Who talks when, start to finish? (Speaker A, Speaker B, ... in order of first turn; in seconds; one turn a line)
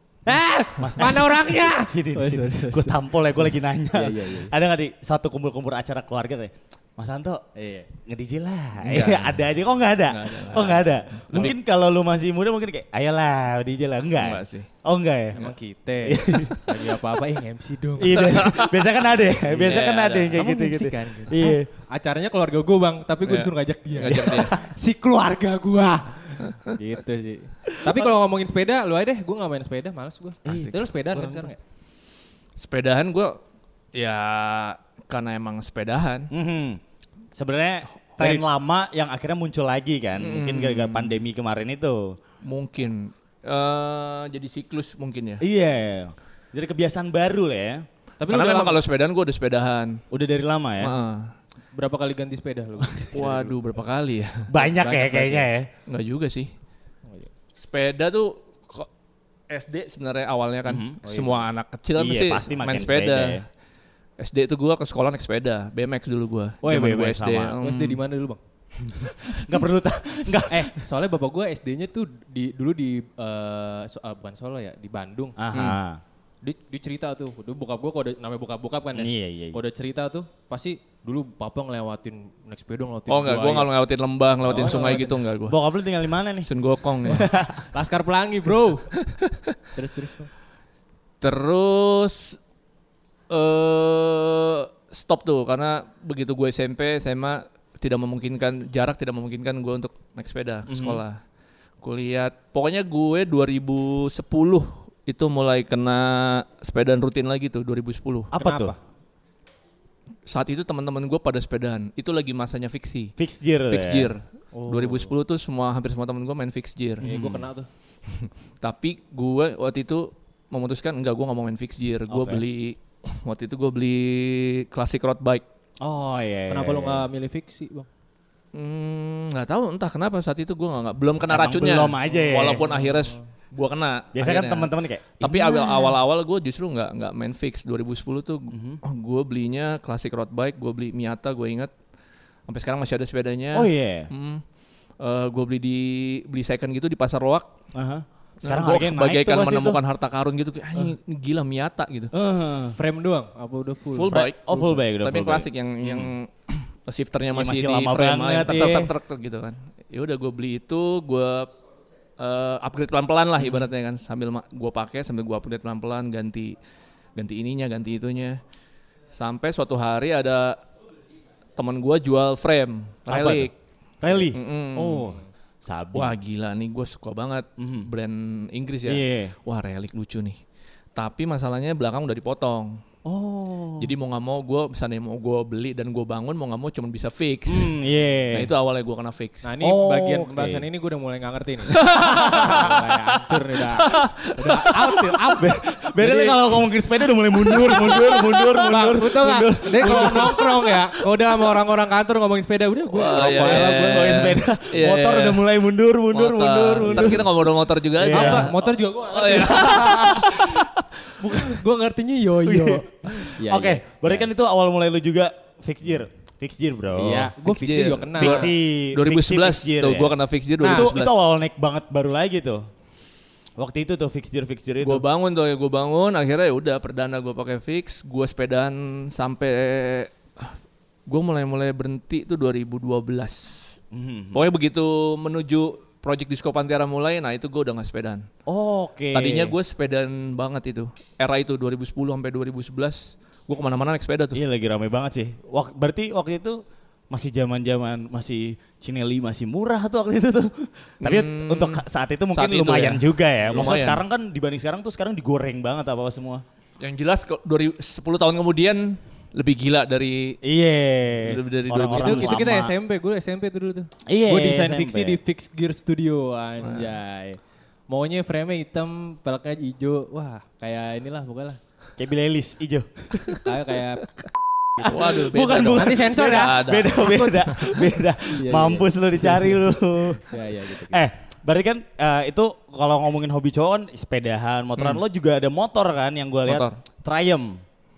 Speaker A: 0.2-4.5
Speaker B: 0.8-7.4
Speaker A: 7.5-7.9
Speaker B: 8.0-15.4
Speaker C: 8.8-9.4
Speaker C: 10.1-11.5
Speaker C: 14.2-14.7
Speaker A: 15.3-18.5
Speaker B: 16.1-16.7
Speaker B: 18.0-21.7
Speaker C: 18.1-19.0
Speaker A: 19.4-31.6
Speaker C: 19.6-20.4
Speaker C: 23.2-24.6
Speaker B: 30.4-31.5
Speaker C: 30.5-30.7
Speaker C: 32.6-33.4
Speaker C: 33.9-36.3
Speaker B: 36.3-36.8
Speaker B: 37.3-42.2
Speaker C: 38.2-38.4
Speaker C: 40.2-41.1
Speaker C: 42.4-45.4
Speaker B: 45.4-47.8
Speaker A: 48.2-48.8
Speaker C: 48.3-50.0
Speaker B: 50.1-51.0
Speaker C: 50.8-51.3
Speaker A: 51.7-53.6
Speaker C: 53.1-54.5
Speaker B: 54.5-55.7
Speaker A: 54.6-55.5
Speaker C: 55.9-56.5
Speaker C: 57.5-58.9
Speaker C: 59.5-63.4
Speaker B: 60.7-60.9
Speaker A: 61.0-61.5
Speaker B: 62.0-63.4
Speaker C: 64.2-68.0
Speaker B: 66.6-67.5
Speaker A: 66.7-67.0
Speaker A: 67.5-68.4
Speaker B: 68.9-70.7
Speaker A: 70.5-75.4
Speaker B: 75.4-76.0
Speaker A: 76.4-83.7
Speaker B: 78.9-79.6
Speaker C: 83.1-85.6
Speaker A: 84.5-85.2
Speaker B: 84.5-86.5
Speaker C: 86.4-87.5
Speaker B: 87.1-87.5
Speaker A: 87.7-88.9
Speaker C: 89.0-89.5
Speaker A: 89.7-90.3
Speaker C: 91.2-92.4
Speaker C: 93.3-101.2
Speaker B: 100.7-101.0
Speaker C: 101.8-108.3
Speaker B: 108.3-108.7
Speaker A: 108.3-108.8
Speaker C: 110.2-113.1
Speaker B: 113.2-114.1
Speaker C: 113.7-117.1
Speaker A: 114.5-115.1
Speaker B: 117.0-117.5
Speaker A: 117.0-117.7
Speaker C: 118.1-125.4
Speaker B: 122.1-122.4
Speaker B: 125.8-127.1
Speaker A: 126.5-127.9
Speaker C: 128.5-141.7
Speaker B: 131.3-132.7
Speaker A: 132.1-133.2
Speaker B: 134.1-135.9
Speaker B: 138.5-138.8
Speaker C: 142.5-144.4
Speaker B: 143.5-144.1
Speaker C: 145.0-147.5
Speaker B: 147.7-149.8
Speaker C: 148.4-152.1
Speaker B: 152.1-152.8
Speaker A: 152.8-154.8
Speaker C: 153.9-154.4
Speaker B: 154.1-156.1
Speaker C: 155.0-161.5
Speaker B: 157.3-158.9
Speaker C: 162.2-166.5
Speaker C: 167.2-168.4
Speaker C: 169.1-170.6
Speaker C: 171.6-173.5
Speaker B: 173.1-173.5
Speaker B: 174.0-176.2
Speaker C: 174.1-175.2
Speaker C: 175.9-180.4
Speaker B: 177.6-177.9
Speaker B: 178.8-179.3
Speaker C: 180.9-182.8
Speaker B: 183.0-183.9
Speaker C: 183.8-187.7
Speaker B: 187.5-188.5
Speaker C: 188.3-189.5
Speaker A: 189.4-196.4
Speaker B: 189.6-190.6
Speaker C: 191.7-194.9
Speaker B: 192.0-192.7
Speaker B: 195.4-200.5
Speaker C: 197.5-198.6
Speaker A: 198.6-204.3
Speaker C: 199.8-200.3
Speaker C: 202.9-205.4
Speaker B: 203.1-207.4
Speaker C: 206.1-210.8
Speaker A: 206.8-207.2
Speaker B: 207.9-208.5
Speaker A: 208.1-210.0
Speaker B: 209.2-210.7
Speaker B: 211.2-211.6
Speaker A: 211.2-214.2
Speaker B: 212.4-217.3
Speaker A: 216.9-218.5
Speaker C: 217.4-221.2
Speaker B: 218.2-222.7
Speaker A: 220.6-220.9
Speaker B: 223.6-225.0
Speaker C: 224.8-230.5
Speaker C: 231.1-233.8
Speaker B: 233.9-234.5
Speaker C: 234.3-238.2
Speaker B: 238.5-239.5
Speaker C: 239.1-244.4
Speaker B: 244.3-256.4
Speaker C: 251.0-254.0
Speaker C: 256.8-260.4
Speaker B: 260.4-262.7
Speaker C: 261.2-262.5
Speaker A: 261.9-271.6
Speaker B: 264.1-265.2
Speaker C: 266.6-266.9
Speaker B: 272.0-273.3
Speaker A: 273.4-274.1
Speaker B: 274.8-287.6
Speaker C: 274.8-277.8
Speaker A: 275.7-276.6
Speaker A: 278.3-279.6
Speaker A: 280.3-281.0
Speaker C: 286.4-286.8